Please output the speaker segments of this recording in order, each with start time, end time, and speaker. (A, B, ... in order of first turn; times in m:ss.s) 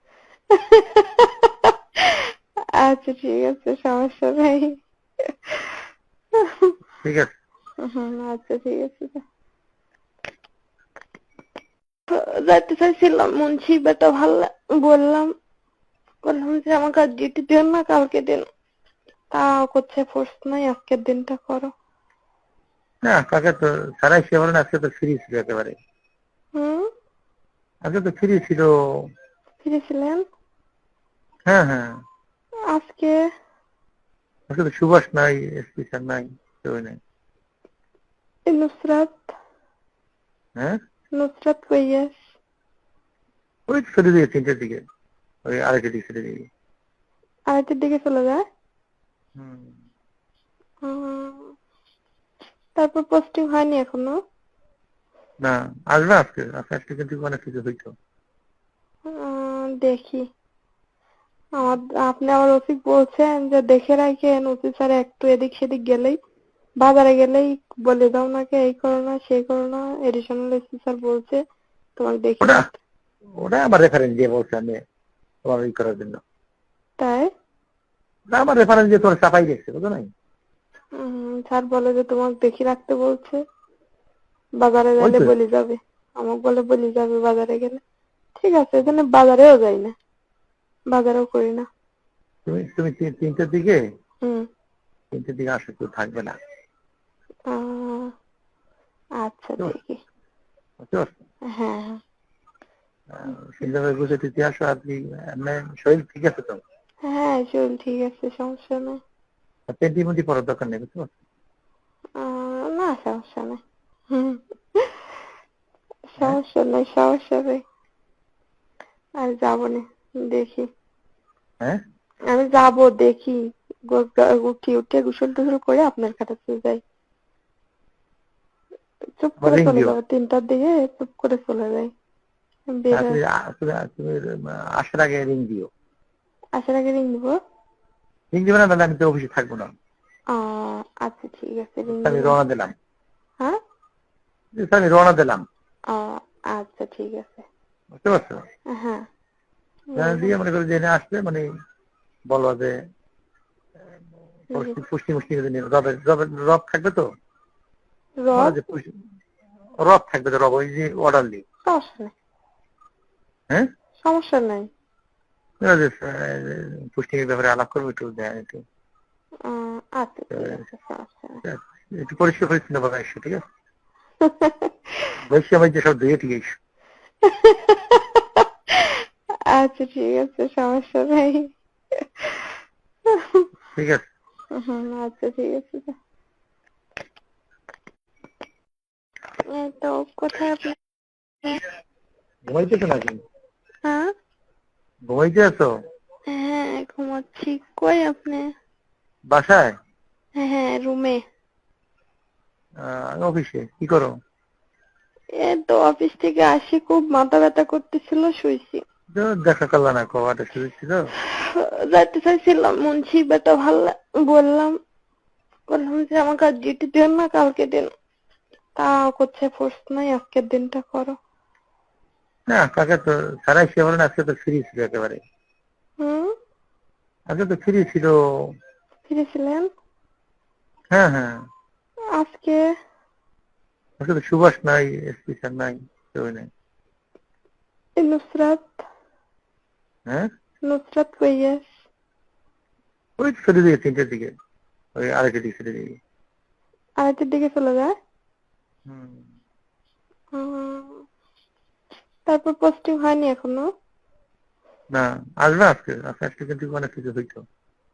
0:00.5-0:05.8 A
0:06.4-0:06.7 A
0:07.0-0:07.3 B
0:07.8-0:09.2 A
0:12.1-0:15.3 A
0:16.2-0:18.4 A
0:19.3-0:21.7 A
0:23.0-0:25.8 B
0:26.6-0:26.9 A
0:27.8-0:28.7 B
0:29.6-0:30.2 A
0:31.5-0:31.9 B
0:32.7-0:33.2 A
0:34.5-0:37.0 B
0:38.5-0:39.3 A
0:41.2-0:42.2 A
0:43.7-0:44.8 B
0:45.5-0:46.4 B
0:47.5-0:48.4 A
0:49.4-0:49.7 B
0:50.8-0:51.5 A
0:52.8-0:54.1 A
0:55.4-0:57.9 B
0:59.1-1:00.2 A
1:01.6-1:06.2 A
1:06.8-1:11.4 A
1:12.0-1:12.8 A
1:13.4-1:14.8 B
1:15.5-1:16.2 B
1:17.0-1:17.3 A
1:18.3-1:20.1 B
1:21.0-1:23.4 A
1:24.6-1:27.8 A
1:25.0-1:25.3 B
1:28.4-1:29.9 A
1:30.9-1:31.6 A
1:32.5-1:33.8 B
1:35.1-1:36.3 B
1:37.5-1:38.1 A
1:39.2-1:40.0 A
1:40.8-1:41.1 B
1:41.5-1:42.0 A
1:43.1-1:46.6 B
1:47.1-1:49.0 A
1:49.7-1:51.1 B
1:52.2-1:55.1 A
1:56.1-1:57.6 A
1:59.2-2:00.7 A
2:02.3-2:03.4 A
2:03.9-2:06.8 A
2:09.2-2:11.9 A
2:09.4-2:10.0 B
2:12.8-2:13.2 A
2:12.9-2:14.2 B
2:14.8-2:15.7 B
2:16.6-2:17.4 A
2:18.3-2:19.7 B
2:20.3-2:22.4 A
2:21.9-2:22.7 B
2:24.6-2:25.4 B
2:25.9-2:27.4 A
2:28.0-2:28.4 B
2:28.7-2:29.0 A
2:29.9-2:30.4 A
2:30.0-2:31.4 B
2:32.3-2:32.7 B
2:34.5-2:37.0 B
2:34.5-2:34.8 A
2:38.2-2:38.6 A
2:38.4-2:38.8 B
2:39.8-2:41.4 B
2:41.6-2:42.1 A
2:44.0-2:44.7 A
2:45.6-2:48.6 B
2:49.4-2:51.4 A
2:51.4-2:53.4 B
2:54.2-2:54.7 A
2:55.3-2:56.5 B
2:57.2-2:59.0 A
2:59.5-3:02.5 A
3:03.1-3:03.5 A
3:03.7-3:04.0 B
3:04.5-3:06.0 A
3:09.5-3:10.8 A
3:12.5-3:13.2 B
3:13.8-3:14.1 A
3:15.1-3:15.7 B
3:16.3-3:18.4 A
3:19.3-3:19.7 B
3:20.4-3:21.2 A
3:22.8-3:24.1 B
3:25.4-3:28.8 A
3:29.1-3:31.0 B
3:31.3-3:34.7 A
3:35.7-3:37.9 A
3:38.8-3:41.2 A
3:42.5-3:45.2 B
3:46.0-3:46.3 A
3:47.3-3:48.1 B
3:49.1-3:49.7 A
3:50.9-3:51.3 B
3:52.2-3:52.6 A
3:54.0-3:56.4 B
3:58.0-3:58.8 A
4:00.6-4:01.7 A
4:03.2-4:04.3 B
4:05.0-4:06.0 B
4:07.0-4:07.9 A
4:08.9-4:09.2 B
4:10.3-4:11.0 A
4:12.3-4:13.6 A
4:14.9-4:17.4 B